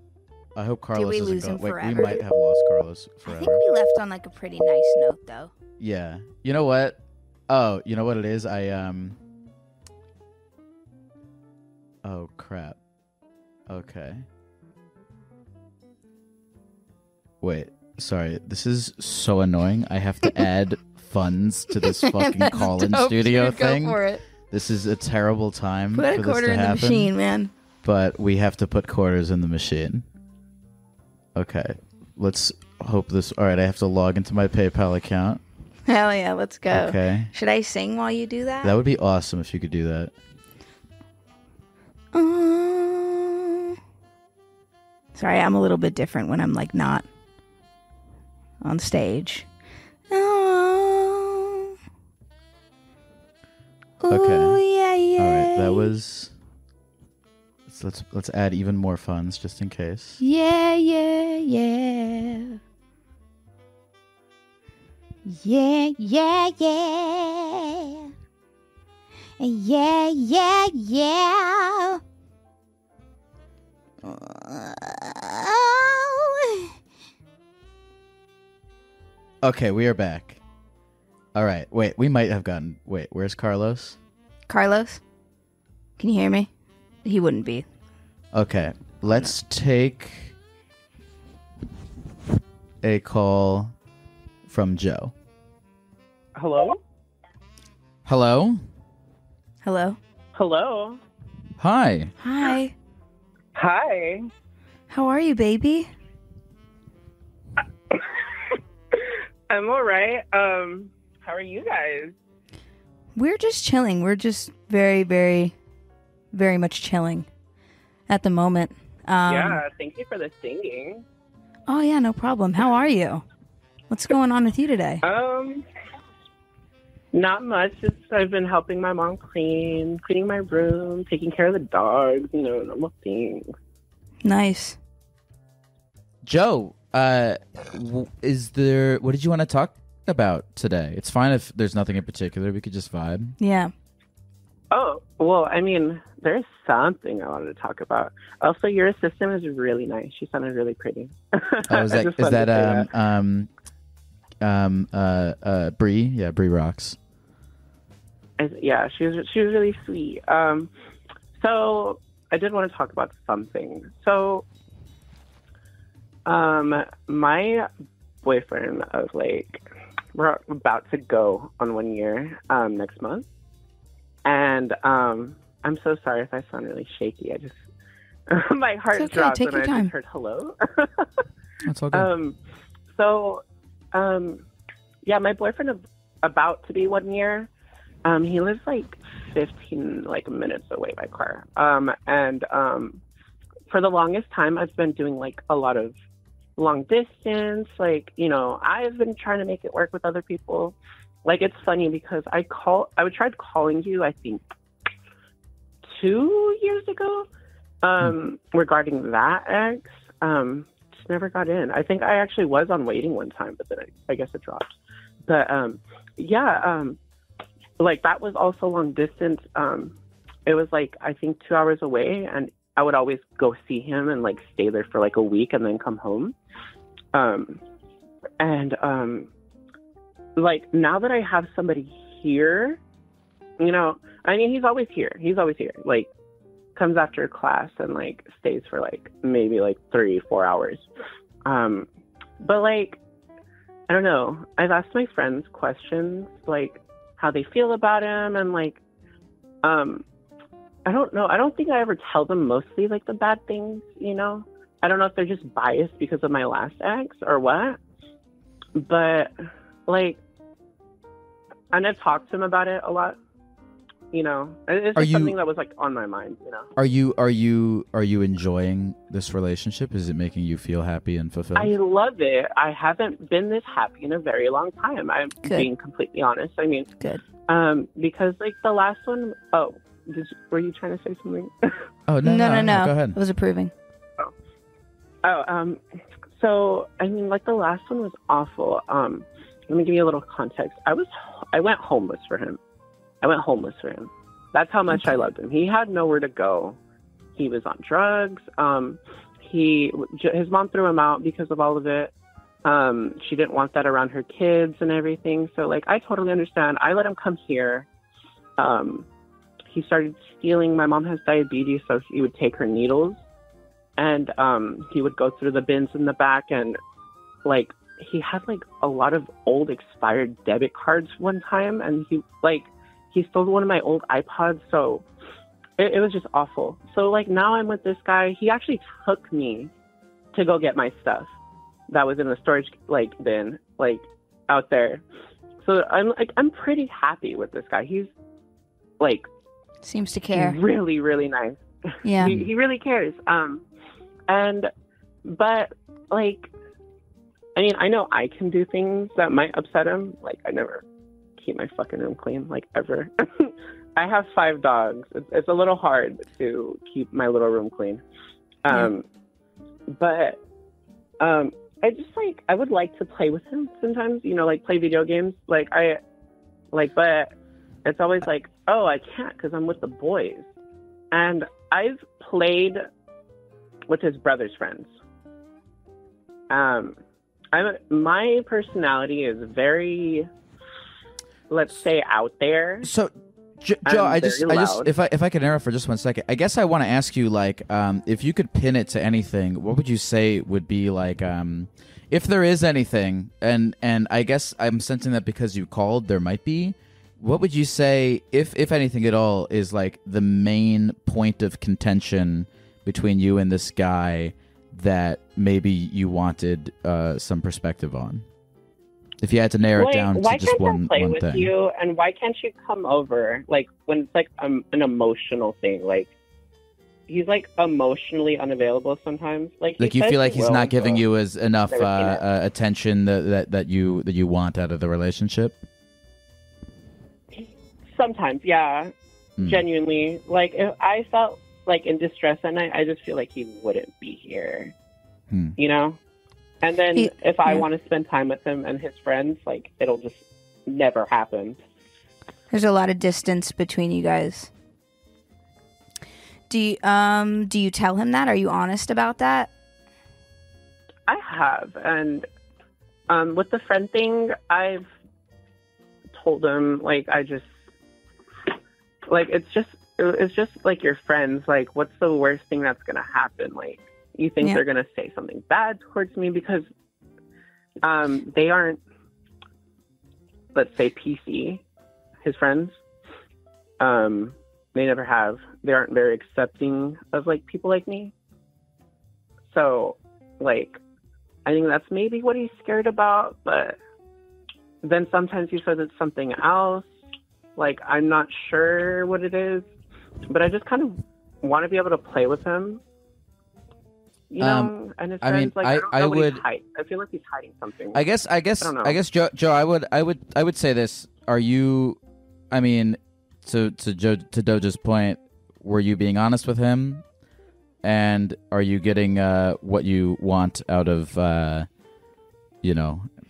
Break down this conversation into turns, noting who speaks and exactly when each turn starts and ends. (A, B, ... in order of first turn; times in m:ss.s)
0:00.6-0:03.6 A
0:00.9-0:02.2 B
0:03.2-0:05.5 B
0:05.8-0:09.2 A
0:12.0-0:12.8 A
0:13.7-0:14.3 A
0:17.4-0:24.0 A
0:21.8-0:24.2 B
0:24.5-0:27.1 A
0:26.0-0:27.5 B
0:27.8-0:30.0 A
0:31.4-0:35.4 A
0:35.9-0:38.8 B
0:36.7-0:37.3 A
0:38.6-0:40.1 A
0:42.1-0:43.8 B
0:45.1-0:47.0 B
0:48.6-0:49.5 B
0:50.1-0:51.7 B
0:54.0-0:55.9 B
0:54.1-0:54.6 A
0:55.2-0:56.4 A
0:57.7-1:00.2 A
1:00.2-1:02.6 B
1:05.2-1:08.1 B
1:09.4-1:12.0 B
1:14.0-1:16.7 B
1:19.4-1:20.4 A
1:21.4-1:24.0 A
1:24.5-1:25.0 B
1:26.0-1:26.5 B
1:27.0-1:27.7 B
1:28.3-1:30.4 A
1:32.8-1:33.7 A
1:34.5-1:35.1 A
1:36.4-1:36.8 C
1:38.1-1:38.6 A
1:39.6-1:40.0 B
1:40.4-1:41.0 C
1:41.6-1:42.1 A
1:42.2-1:42.7 B
1:43.6-1:44.3 C
1:44.9-1:45.9 B
1:49.5-1:52.2 C
1:53.2-1:55.6 B
1:56.3-1:57.3 B
1:58.1-1:59.6 B
1:59.3-2:01.0 C
2:01.7-2:03.2 B
2:03.9-2:05.0 B
2:05.0-2:05.6 C
2:07.1-2:13.5 C
2:14.2-2:14.8 B
2:16.2-2:23.4 A
2:23.4-2:23.7 B
2:24.7-2:32.9 C
2:31.7-2:33.5 A
2:34.4-2:37.0 A
2:38.4-2:40.7 C
2:41.4-2:44.5 C
2:46.3-2:47.7 C
2:48.2-2:53.3 C
2:54.2-2:57.6 C
2:58.3-3:01.1 C
2:58.9-2:59.9 B
3:01.6-3:02.1 A
3:01.9-3:02.4 C
3:03.0-3:04.4 C
3:05.1-3:07.5 C
3:08.0-3:13.0 C
3:13.7-3:16.0 C
3:16.6-3:24.4 C
3:25.9-3:27.3 C
3:27.8-3:34.7 C
3:35.3-3:37.0 C
3:37.8-3:39.9 C
3:40.5-3:46.4 C
3:47.1-3:47.6 C
3:48.4-3:49.3 C
3:50.4-3:52.8 C
3:53.6-3:56.1 C
3:56.8-4:00.9 C
4:01.4-4:01.9 C
4:02.4-4:03.0 C
4:03.9-4:08.8 C
4:09.6-4:10.0 C
4:10.9-4:17.8 C
4:18.8-4:19.3 C
4:19.9-4:20.2 C
4:21.7-4:23.2 C
4:24.1-4:26.7 C
4:25.0-4:25.4 A
4:26.8-4:31.8 A
4:31.6-4:36.9 C
4:37.5-4:41.5 C
4:42.1-4:43.2 A
4:42.2-4:43.7 B
4:45.2-4:45.8 C
4:46.4-4:52.6 C
4:53.2-4:56.8 C
4:54.9-4:55.2 B
4:57.4-5:02.1 C
5:02.6-5:07.9 C
5:08.6-5:09.1 C
5:09.7-5:13.2 C
5:14.0-5:16.8 C
5:17.4-5:25.0 C
5:25.8-5:29.7 C
5:30.3-5:31.3 C
5:31.9-5:35.0 C
5:35.6-5:38.1 C
5:39.0-5:39.3 C
5:39.8-5:40.6 B
5:40.3-5:43.6 C
5:42.0-5:42.4 B
5:44.3-5:44.7 C
5:45.2-5:46.5 C
5:47.6-5:50.8 C
5:51.4-5:58.0 C
5:58.6-5:59.0 C
5:59.9-6:00.4 C
6:01.2-6:06.0 C
6:06.7-6:07.3 C
6:07.8-6:10.4 C
6:11.1-6:12.8 C
6:13.9-6:14.9 C
6:16.5-6:17.0 C
6:17.5-6:20.3 C
6:21.5-6:22.9 C
6:22.8-6:48.3 A
6:23.9-6:24.9 C
6:49.2-6:51.5 A
6:49.8-6:56.1 C
6:57.1-7:01.0 C
6:59.8-7:05.6 A
7:01.7-7:02.2 C
7:07.4-7:14.7 C
7:09.4-7:09.6 A
7:15.3-7:15.6 A
7:15.6-7:16.0 C
7:16.6-7:21.6 C
7:17.0-7:17.7 B
7:22.5-7:24.5 B
7:26.5-7:29.5 B
7:31.1-7:32.3 C
7:33.1-7:34.9 C
7:36.2-7:37.5 C
7:39.1-7:46.7 C
7:47.8-7:48.8 C
7:50.5-7:51.6 C
7:52.2-7:52.8 C
7:53.8-7:58.1 C
7:59.5-8:00.8 C
8:01.5-8:03.8 C
8:04.8-8:06.8 C
8:07.6-8:09.7 C
8:10.3-8:12.8 C
8:14.3-8:18.0 C
8:14.4-8:16.4 A
8:17.9-8:22.0 A
8:18.6-8:19.0 C
8:22.5-8:27.0 A
8:27.8-8:31.7 A
8:32.6-8:33.1 A